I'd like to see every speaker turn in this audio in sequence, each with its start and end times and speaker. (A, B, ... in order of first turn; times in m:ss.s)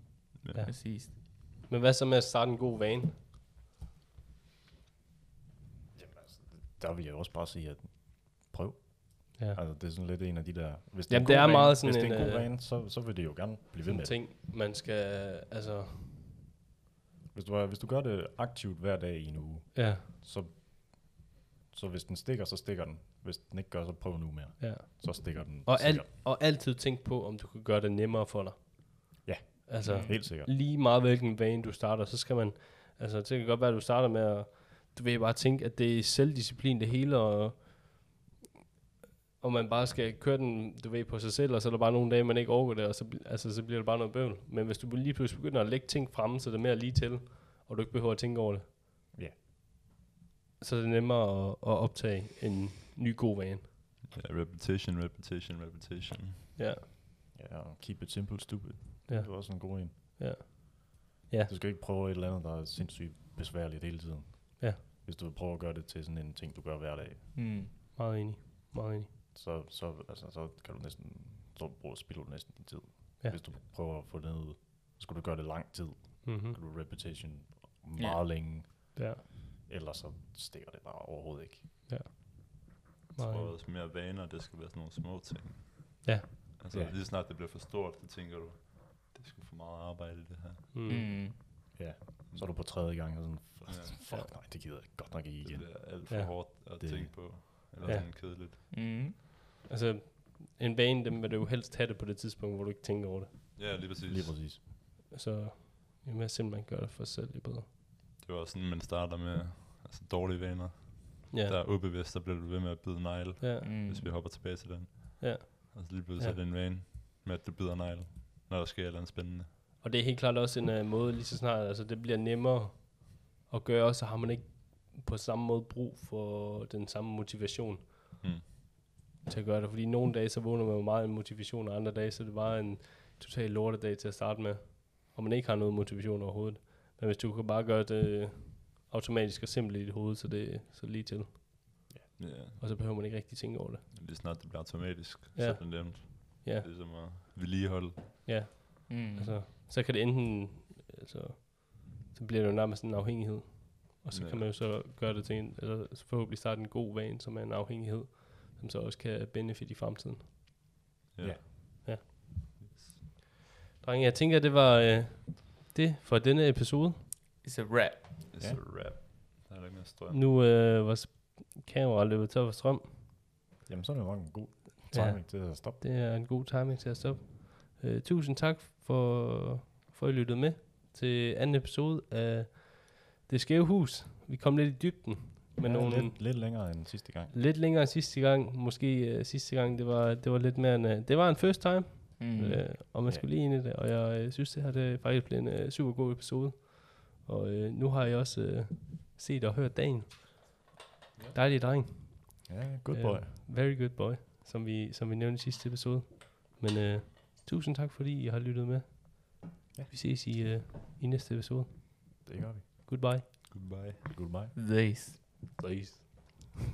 0:00.5-0:03.2 A
0:00.7-0:01.2 B
0:05.9-0:14.2 C
0:11.1-0:12.5 A
0:13.8-0:16.2 A
0:17.3-0:26.1 C
0:19.7-0:20.1 A
0:24.6-0:38.0 A
0:29.2-0:30.5 C
0:29.8-0:30.1 B
0:39.4-0:48.7 A
0:50.6-0:53.7 A
0:54.1-0:56.4 D
0:56.6-0:56.8 A
0:57.3-1:00.2 C
0:59.1-1:01.5 A
1:01.5-1:07.6 C
1:07.4-1:07.7 B
1:08.0-1:09.1 A
1:09.3-1:21.9 C
1:16.2-1:16.6 A
1:18.0-1:18.2 B
1:19.0-1:19.2 A
1:21.9-1:23.5 A
1:23.2-1:30.7 D
1:30.7-1:31.1 A
1:30.9-1:31.4 B
1:31.8-1:37.9 C
1:32.3-1:32.7 D
1:33.7-1:33.9 D
1:35.4-1:38.7 D
1:37.8-1:38.7 A
1:38.1-1:39.2 B
1:39.7-1:43.3 A
1:43.6-1:44.5 D
1:44.0-1:44.6 C
1:45.1-1:47.7 A
1:48.2-1:59.5 D
1:53.4-1:53.7 A
1:53.6-1:54.1 B
1:55.2-1:56.4 A
1:59.8-2:08.5 A
2:08.2-2:08.5 D
2:09.2-2:23.9 A
2:22.2-2:22.6 D
2:23.9-2:28.3 D
2:25.4-2:26.7 A
2:28.3-2:40.3 A
2:28.9-2:29.4 B
2:34.1-2:34.5 D
2:41.1-2:41.5 D
2:42.6-2:43.0 D
2:43.8-2:47.0 A
2:47.4-2:48.3 B
2:48.3-2:50.2 D
2:50.1-2:53.0 A
2:53.7-2:55.8 C
2:54.9-3:06.8 A
3:05.6-3:07.3 C
3:07.3-3:20.6 A
3:12.2-3:12.6 B
3:21.3-3:33.2 A
3:22.5-3:23.4 C
3:32.2-3:32.6 C
3:33.5-3:34.0 D
3:34.1-3:34.5 C
3:34.6-3:35.6 B
3:35.6-3:36.6 A